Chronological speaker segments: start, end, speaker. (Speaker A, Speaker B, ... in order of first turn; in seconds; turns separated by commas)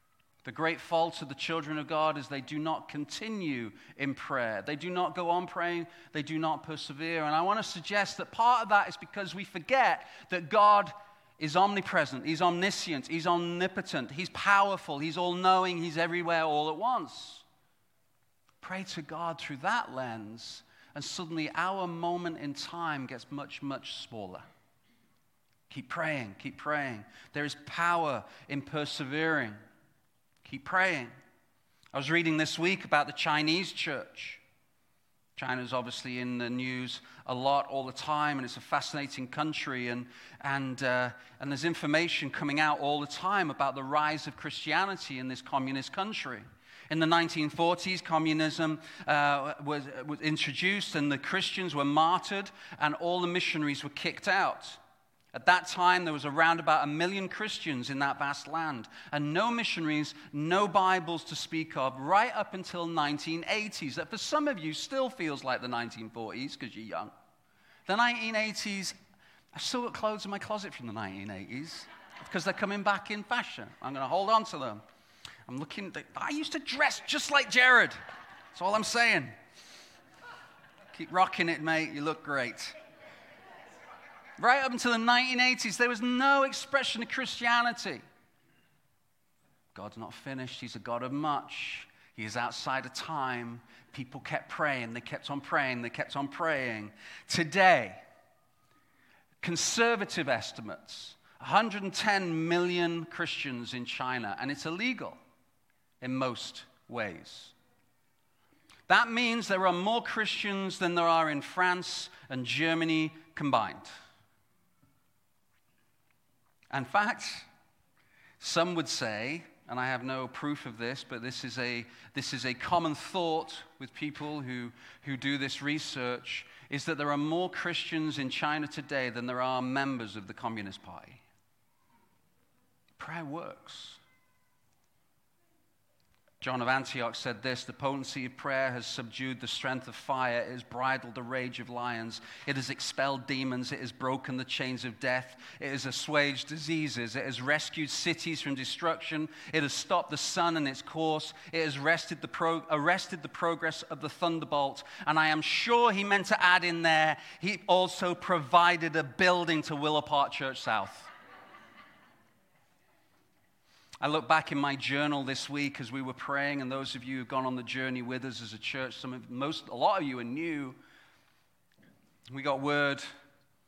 Speaker A: 0.4-17.4, Speaker A: 18.6-24.4, Speaker A: 25.7-29.6, Speaker A: 30.4-31.1, Speaker A: 31.9-34.4, Speaker A: 35.4-54.8, Speaker A: 55.3-67.1, Speaker A: 67.9-68.9, Speaker A: 69.5-74.8, Speaker A: 75.5-78.0, Speaker A: 78.5-79.3, Speaker A: 80.9-82.7, Speaker A: 84.4-88.0, Speaker A: 89.7-98.0, Speaker A: 99.4-105.2, Speaker A: 106.0-107.5, Speaker A: 108.9-113.9, Speaker A: 116.7-117.5, Speaker A: 118.4-131.2, Speaker A: 133.0-134.0, Speaker A: 136.4-161.1, Speaker A: 164.0-170.8, Speaker A: 172.3-173.0